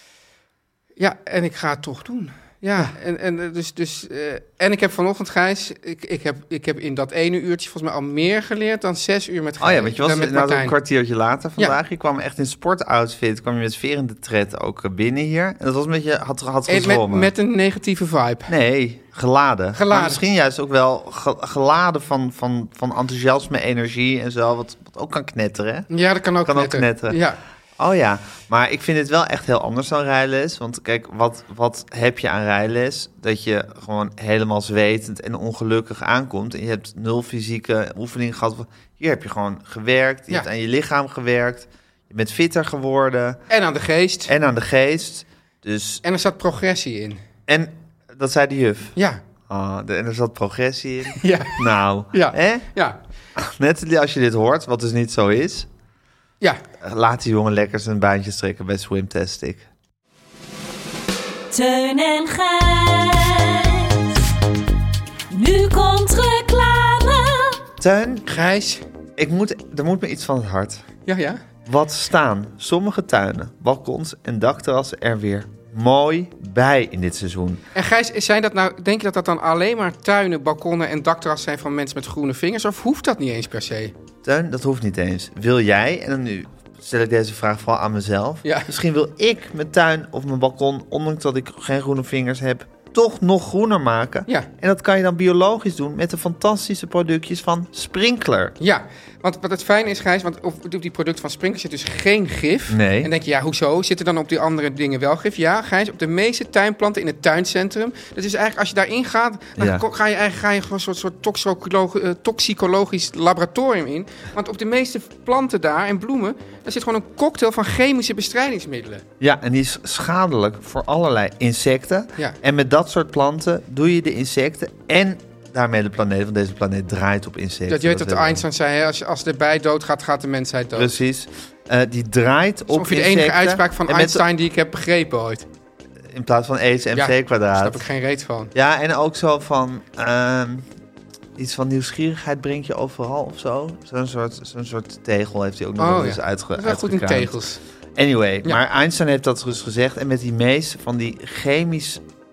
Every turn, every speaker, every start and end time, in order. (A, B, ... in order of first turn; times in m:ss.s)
0:01.0-0:10.8 A
0:09.6-0:17.3 B
0:16.7-0:18.5 A
0:18.5-0:25.9 B
0:19.8-0:20.2 A
0:25.9-0:27.4 A
0:26.4-0:27.2 B
0:27.8-0:43.4 B
0:43.5-0:44.3 A
0:44.3-0:46.0 B
0:46.0-0:47.2 A
0:47.5-0:49.0 B
0:49.0-0:49.2 A
0:49.5-0:52.7 B
0:51.2-0:53.0 A
0:53.4-0:55.7 B
0:56.8-0:59.7 B
1:01.5-1:04.3 C
1:05.3-1:07.6 C
1:07.8-1:08.3 B
1:08.3-1:08.8 A
1:09.2-1:10.8 B
1:11.1-1:11.4 A
1:11.7-1:17.6 B
1:17.8-1:23.9 A
1:24.2-1:38.5 B
1:38.6-1:59.0 A
1:42.7-1:43.1 B
1:49.6-1:49.8 B
1:59.2-2:08.4 B
2:07.7-2:10.9 A
2:10.7-2:14.2 B
2:12.7-2:15.5 A
2:16.1-2:17.8 B
2:16.9-2:18.5 A
2:18.5-2:20.7 B
2:21.4-2:27.4 B
2:25.8-2:27.6 A
2:28.0-2:32.0 B